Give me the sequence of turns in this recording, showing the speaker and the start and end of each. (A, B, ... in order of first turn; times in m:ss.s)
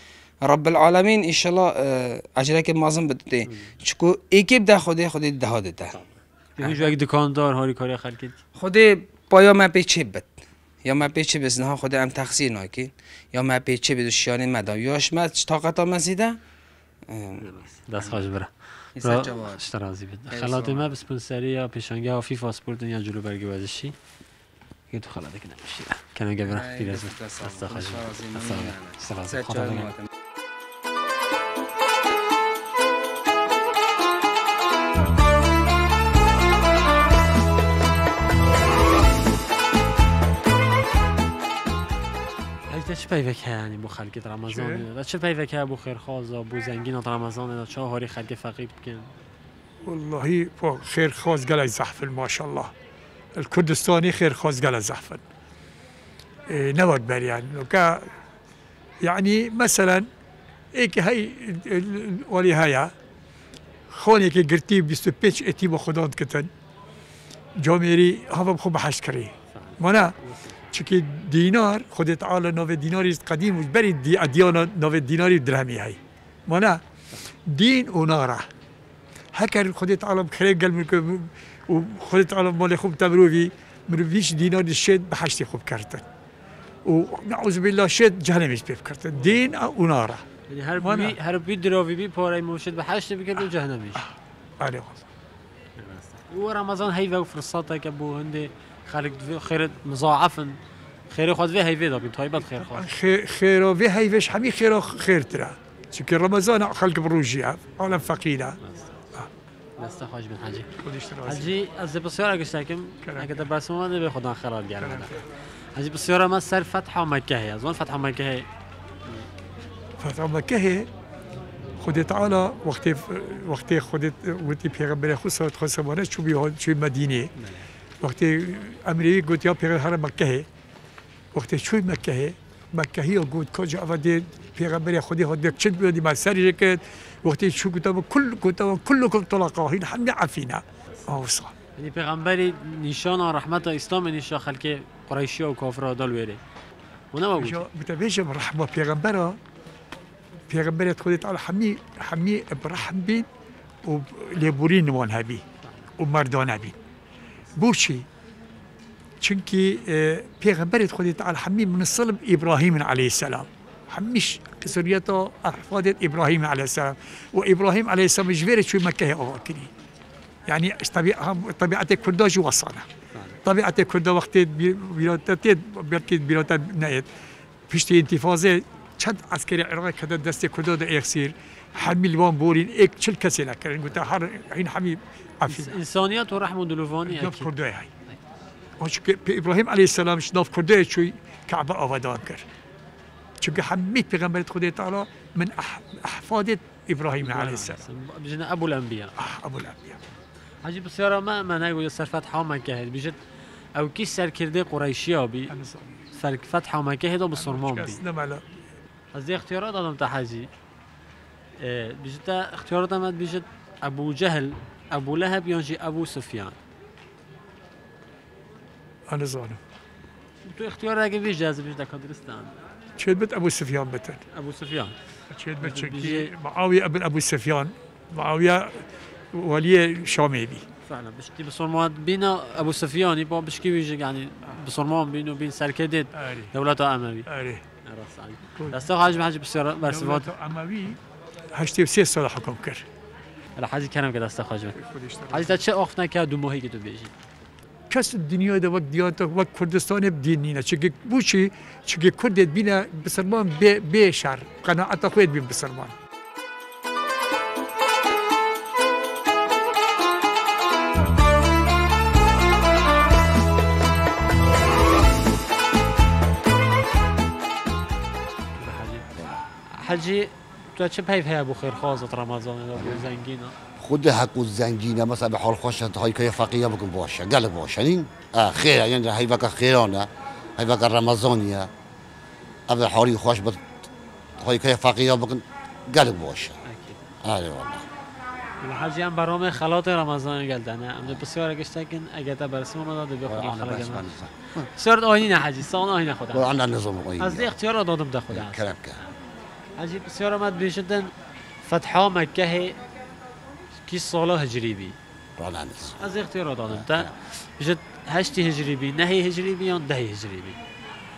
0:00.4-0:06.0 A
0:03.5-0:03.8 B
0:05.9-0:08.4 B
0:06.6-0:06.9 A
0:08.6-0:10.3 A
0:10.8-0:16.4 A
0:17.1-0:18.3 A
0:17.4-0:23.9 B
0:19.0-0:19.6 A
0:20.3-0:20.9 A
0:24.9-0:29.9 B
0:26.4-0:30.1 A
0:42.7-0:49.1 B
0:44.5-0:44.8 C
0:49.9-0:52.7 C
0:53.4-0:55.2 C
0:56.5-0:58.1 C
0:59.0-1:00.1 C
1:00.8-1:02.9 C
1:03.9-1:06.5 C
1:07.6-1:10.1 C
1:09.5-1:10.8 B
1:10.7-1:16.8 C
1:17.5-1:18.5 C
1:19.4-1:26.0 C
1:26.9-1:30.2 C
1:30.5-1:34.0 B
1:30.8-1:31.2 C
1:34.0-1:35.0 C
1:35.8-1:40.6 B
1:41.1-1:42.9 B
1:42.4-1:48.6 C
1:48.6-1:49.0 B
1:49.8-1:50.7 B
1:50.8-1:51.5 C
1:51.2-1:55.1 B
1:53.0-1:53.5 C
1:54.8-1:55.2 C
1:55.8-1:58.5 B
2:00.0-2:00.9 C
2:01.8-2:07.3 C
2:07.4-2:07.7 B
2:08.0-2:10.5 C
2:11.3-2:21.5 C
2:21.8-2:26.4 B
2:27.1-2:27.6 B
2:27.4-2:29.4 C
2:30.5-2:33.3 C
2:33.8-2:35.4 C
2:35.6-2:35.9 B
2:36.0-2:36.8 C
2:37.6-2:38.0 C
2:39.2-2:49.7 C
2:50.5-2:52.9 C
2:53.1-2:53.4 B
2:53.4-2:57.1 C
2:57.7-3:05.8 C
3:05.5-3:07.5 B
3:07.0-3:07.9 C
3:08.8-3:12.4 C
3:13.4-3:17.8 C
3:17.2-3:19.2 B
3:19.2-3:20.0 C
3:20.6-3:23.2 B
3:23.8-3:25.5 B
3:25.5-3:25.9 C
3:26.2-3:28.0 B
3:27.4-3:28.4 C
3:29.1-3:30.5 B
3:31.6-3:36.6 B
3:39.1-3:39.6 C
3:40.5-3:42.5 B
3:43.0-3:44.2 C
3:44.3-3:45.0 B
3:45.3-3:50.6 C
3:45.6-3:46.3 B
3:50.9-3:57.3 B
3:56.2-3:56.5 C
3:57.3-3:57.6 C
3:57.8-4:00.3 B
3:58.6-3:58.9 C
3:59.8-4:01.0 C
4:01.6-4:02.8 C
4:03.6-4:04.8 B
4:04.8-4:05.6 C
4:05.3-4:07.1 B
4:07.9-4:15.9 C
4:28.6-4:29.1 B
4:29.2-4:29.4 D
4:29.8-4:33.6 B
4:32.8-4:33.1 D
4:33.8-4:41.7 D
4:42.7-4:43.6 D
4:44.4-4:46.6 D
4:46.6-4:47.1 B
4:47.2-4:47.9 D
4:48.6-4:56.5 B
4:53.3-4:54.7 D
4:56.3-4:57.6 D
4:57.2-4:58.8 B
4:58.3-4:59.0 D
4:59.8-5:02.8 B
5:03.9-5:05.0 B
5:05.4-5:06.1 D
5:06.0-5:10.6 B
5:06.7-5:07.1 D